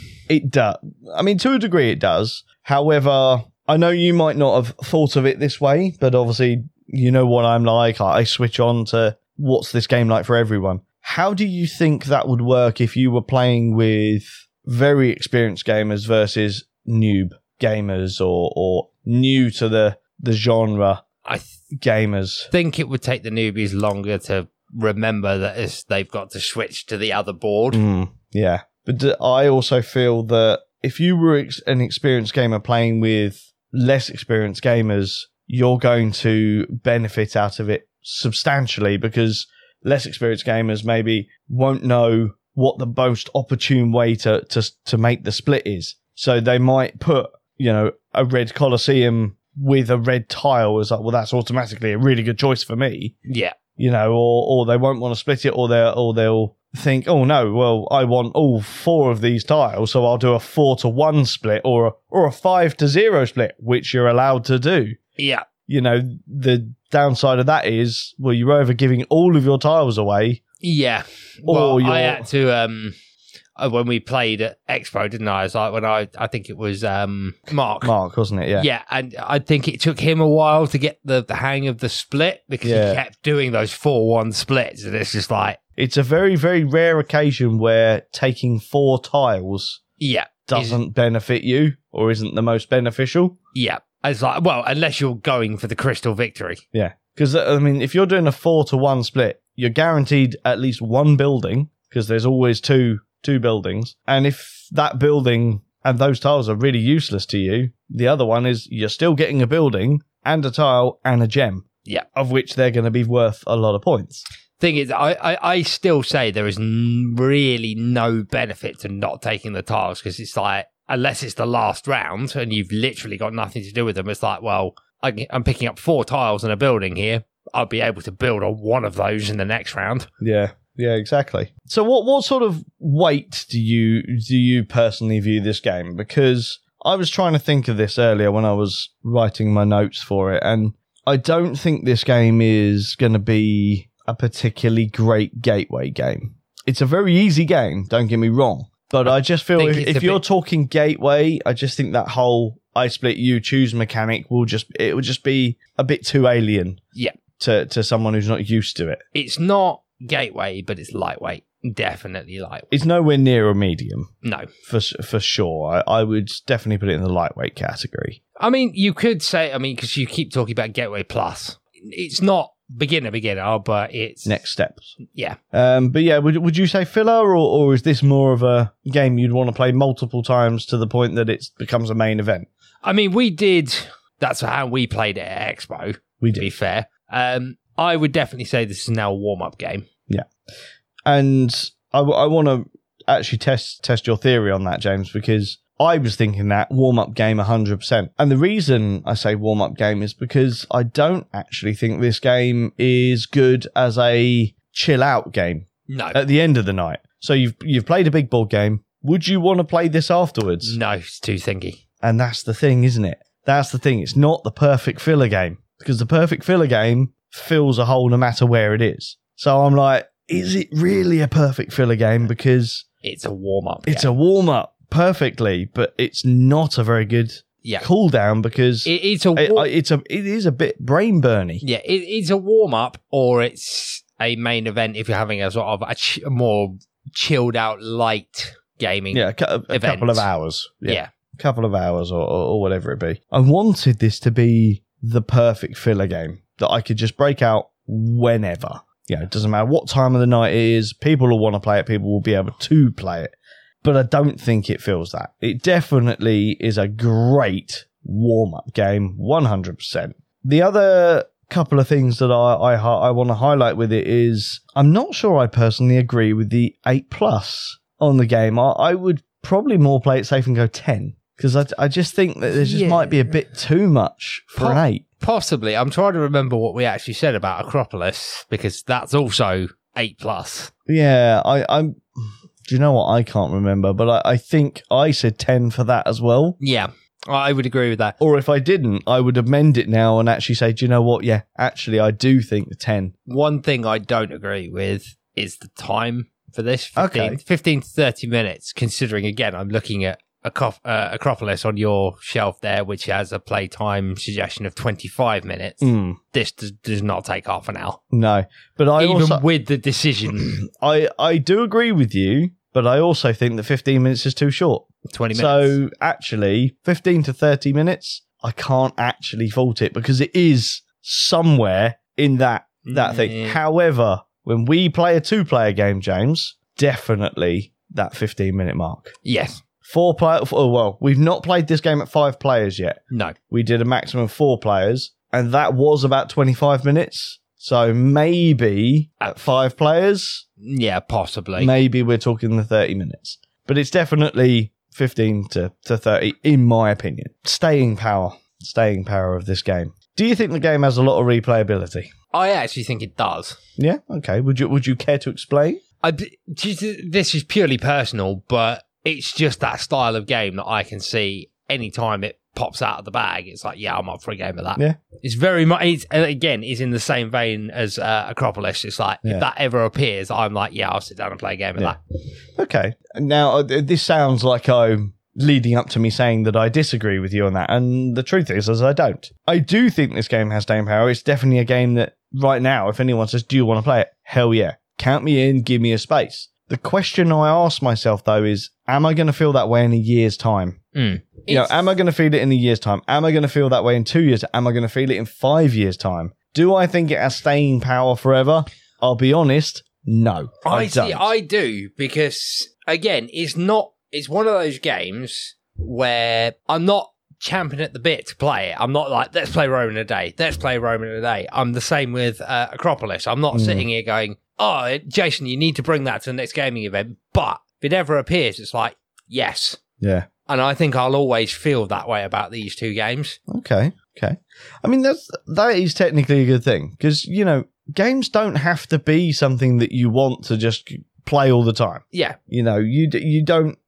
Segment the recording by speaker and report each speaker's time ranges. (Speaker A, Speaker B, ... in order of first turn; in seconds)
Speaker A: 0.3-21.0, 21.7-22.5, 27.7-53.1, 53.8-65.0, 65.7-70.4, 71.5-72.3, 77.8-78.7, 82.6-83.0, 85.8-89.8, 90.5-93.4, 96.7-114.3, 130.2-156.8, 157.4-159.0, 162.7-164.1, 164.7-168.2, 174.2-174.9, 175.5-182.5, 186.2-186.5, 191.1-210.8, 212.0-222.8, 223.9-231.6, 239.1-275.0, 280.9-286.6, 288.2-293.1, 297.0-297.4, 305.8-306.2, 308.1-309.4, 310.4-329.1, 329.9-333.0, 333.5-340.4, 341.6-352.1, 353.8-355.8, 372.6-390.8, 391.5-401.3, 413.5-413.9, 420.0-420.3, 423.5-433.8
Speaker B: 21.2-21.6, 22.5-27.8, 53.3-53.5, 65.2-65.5, 70.6-72.9, 73.6-77.9, 78.6-85.6, 90.0-90.8, 93.5-96.6, 114.6-130.1, 149.1-150.2, 159.1-162.7, 164.2-164.5, 168.4-174.4, 175.1-175.4, 182.8-189.9, 205.9-206.2, 210.6-211.8, 223.0-224.1, 228.8-229.7, 231.6-240.3, 272.6-273.2, 274.6-280.7, 286.6-288.2, 293.3-308.0, 309.0-310.6, 315.1-315.8, 322.9-323.6, 329.2-329.6, 340.6-341.7, 352.3-353.6, 356.0-372.0, 390.9-391.9, 400.6-419.8, 420.5-423.4, 432.1-432.4